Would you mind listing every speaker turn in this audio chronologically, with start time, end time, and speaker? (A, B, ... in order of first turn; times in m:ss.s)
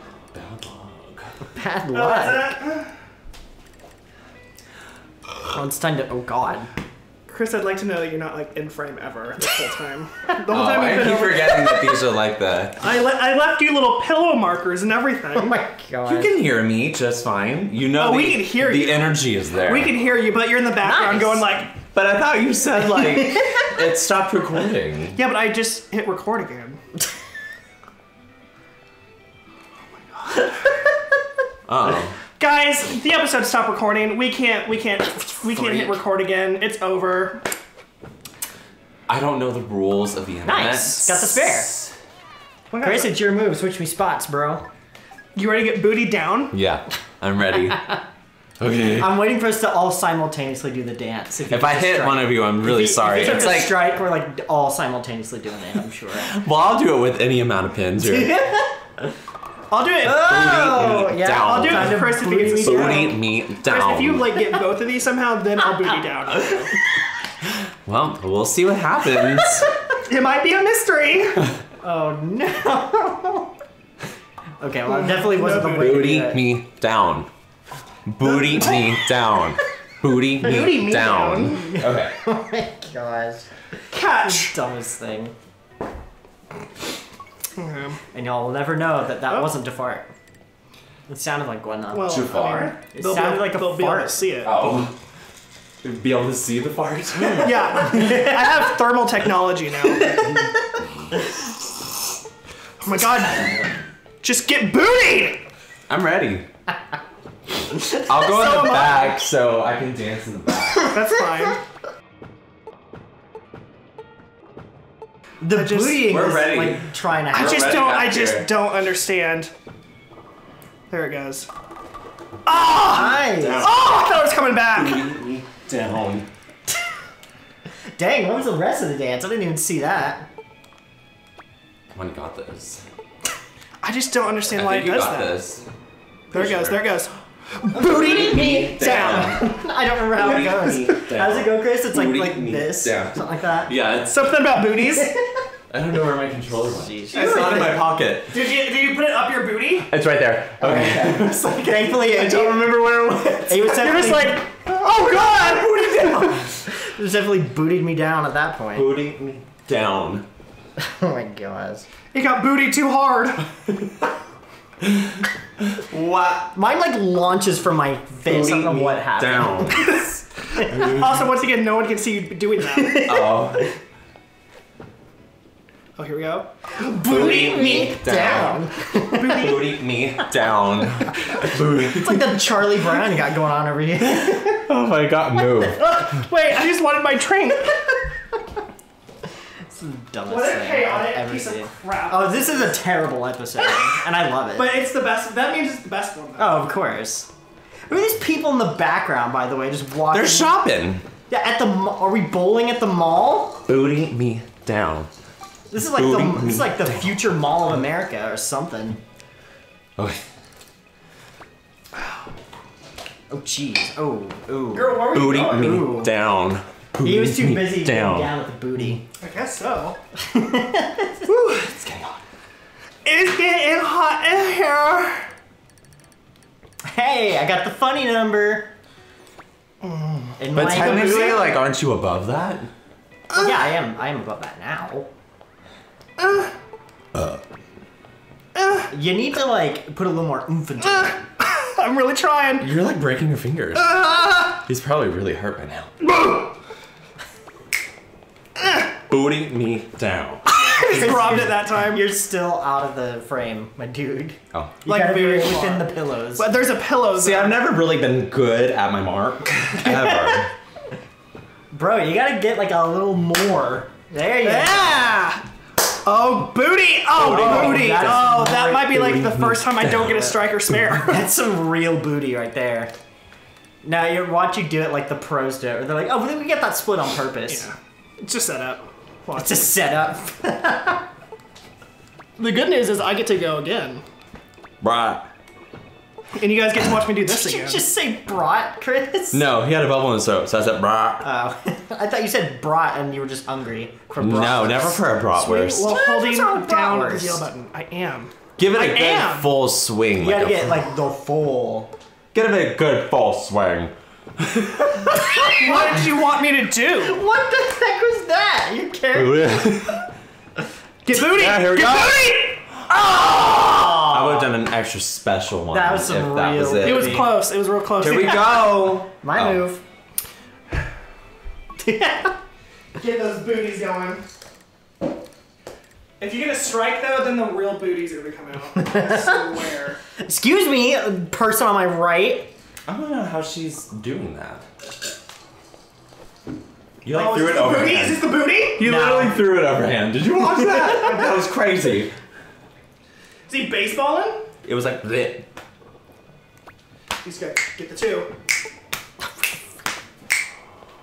0:00.3-0:01.3 A
0:01.6-0:02.6 B
0:01.9-0:02.9 C
0:05.5-0:06.7 B
0:07.3-0:12.0 C
0:10.5-0:12.8 A
0:12.8-0:15.6 C
0:15.4-0:16.3 B
0:16.1-0:20.0 A
0:17.9-0:21.7 C
0:20.8-0:21.6 B
0:21.9-0:25.2 A
0:23.0-0:23.7 B
0:25.2-0:26.8 C
0:30.1-0:30.5 C
0:31.7-0:32.2 A
0:32.4-0:37.4 C
0:39.1-0:41.9 A
0:40.4-0:41.8 B
0:42.7-0:43.2 C
0:42.8-0:44.6 B
0:45.4-0:46.6 C
0:46.5-0:48.0 A
0:48.6-0:49.2 A
0:49.0-0:56.4 B
0:51.5-0:54.0 A
0:56.2-0:58.4 A
0:58.0-0:58.7 B
0:59.7-1:00.4 C
1:00.0-1:03.2 B
1:00.0-1:04.2 A
1:01.4-1:06.7 C
1:07.8-1:09.7 A
1:10.0-1:11.5 C
1:11.8-1:13.5 B
1:14.6-1:16.5 B
1:14.9-1:16.1 C
1:15.7-1:17.3 A
1:18.1-1:22.1 A
1:18.2-1:18.9 C
1:20.4-1:21.8 C
1:21.6-1:23.5 B
1:23.9-1:24.6 C
1:24.2-1:25.3 B
1:27.6-1:28.0 C
1:28.1-1:30.1 B
1:31.1-1:34.3 B
1:31.9-1:34.8 C
1:32.0-1:32.8 A
1:34.4-1:35.0 A
1:35.8-1:38.1 A
1:37.4-1:40.3 C
1:42.8-1:43.6 C
1:44.2-1:45.4 C
1:45.9-1:46.5 A
1:47.9-1:51.0 A
1:48.1-1:49.2 C
1:50.9-1:51.6 C
1:55.4-1:57.8 B
1:55.5-1:56.0 C
1:56.0-1:58.5 A
1:57.3-1:59.5 C
2:00.9-2:01.5 C
2:02.5-2:05.1 C
2:02.8-2:03.7 B
2:03.4-2:04.0 A
2:04.7-2:06.3 A
2:08.0-2:10.2 B
2:11.9-2:12.8 A
2:13.8-2:15.4 C
2:14.5-2:15.7 A
2:16.3-2:16.9 A
2:16.3-2:17.1 C
2:17.6-2:19.4 C
2:17.7-2:23.7 B
2:17.7-2:19.6 A
2:20.1-2:24.3 A
2:24.1-2:25.2 C
2:25.7-2:28.3 A
2:26.7-2:27.7 B
2:27.1-2:29.9 C
2:29.9-2:34.1 A
2:30.6-2:32.8 B
2:33.5-2:34.4 B
2:33.6-2:36.4 C
2:35.0-2:36.5 A
2:36.7-2:39.0 B
2:38.7-2:40.3 A
2:40.8-2:41.9 B
2:42.1-2:43.5 C
2:44.8-2:46.5 A
2:46.5-2:50.1 B
2:48.2-2:50.1 A
2:50.7-2:51.2 A
2:50.7-2:53.2 C
2:53.0-2:53.7 A
2:56.0-2:57.5 C
2:56.8-2:59.6 B
2:57.0-3:02.4 A
2:59.0-2:59.6 C
3:01.7-3:04.7 B
3:04.1-3:06.1 A
3:05.8-3:07.9 C
3:09.7-3:14.8 B
3:10.3-3:12.8 C
3:13.6-3:13.9 C
3:14.5-3:16.7 C
3:16.4-3:17.3 B
3:17.9-3:20.6 B
3:20.1-3:21.0 A
3:21.3-3:23.6 B
3:23.7-3:25.1 A
3:25.7-3:29.0 B
3:25.8-3:27.2 A
3:33.3-3:36.1 B
3:34.7-3:35.8 C
3:35.1-3:38.3 A
3:37.0-3:39.0 B
3:39.2-3:40.0 C
3:40.3-3:41.3 B
3:41.3-3:42.0 C
3:43.0-3:45.2 C
3:46.8-3:48.7 B
3:49.8-3:51.5 C
3:50.4-3:51.5 B
3:50.5-3:52.7 A
3:53.3-3:55.1 B
3:56.2-3:56.5 C
3:57.1-3:57.4 A
3:58.6-3:58.9 C
3:58.9-4:01.3 B
4:00.9-4:02.7 C
4:02.6-4:05.9 A
4:03.9-4:04.2 C
4:09.1-4:11.5 A
4:10.5-4:12.1 C
4:10.7-4:16.5 B
4:14.5-4:14.8 A
4:14.8-4:17.7 C
4:17.2-4:20.5 A
4:21.7-4:25.2 B
4:24.4-4:25.4 C
4:26.0-4:31.3 C
4:27.2-4:30.8 A
4:27.2-4:29.4 B
4:31.1-4:32.9 B
4:33.8-4:37.7 B
4:37.5-4:39.7 C
4:39.4-4:41.0 B
4:42.4-4:44.0 C
4:44.8-4:45.3 A
4:46.4-4:47.8 C
4:47.2-4:49.4 B
4:49.3-4:51.2 A
4:51.2-4:55.0 B
4:54.2-4:55.9 A
4:55.4-4:59.5 C
4:55.8-4:57.4 B
4:58.6-5:00.8 A
5:00.2-5:01.9 B
5:02.3-5:05.3 A
5:05.5-5:07.2 C
5:07.0-5:09.8 B
5:09.1-5:10.1 A
5:11.0-5:12.6 C
5:11.1-5:12.3 A
5:12.9-5:14.5 B
5:13.6-5:17.3 A
5:15.7-5:17.4 B
5:16.8-5:18.7 C
5:18.0-5:19.7 A
5:18.9-5:19.8 B
5:21.8-5:22.4 B
5:23.0-5:24.2 C
5:26.2-5:30.0 C
5:28.8-5:29.4 B
5:30.2-5:32.5 B
5:32.9-5:34.6 A
5:37.0-5:42.1 A
5:37.1-5:38.8 C
5:38.8-5:39.4 B
5:43.5-5:44.5 C
5:44.6-5:45.5 A
5:47.2-5:48.3 C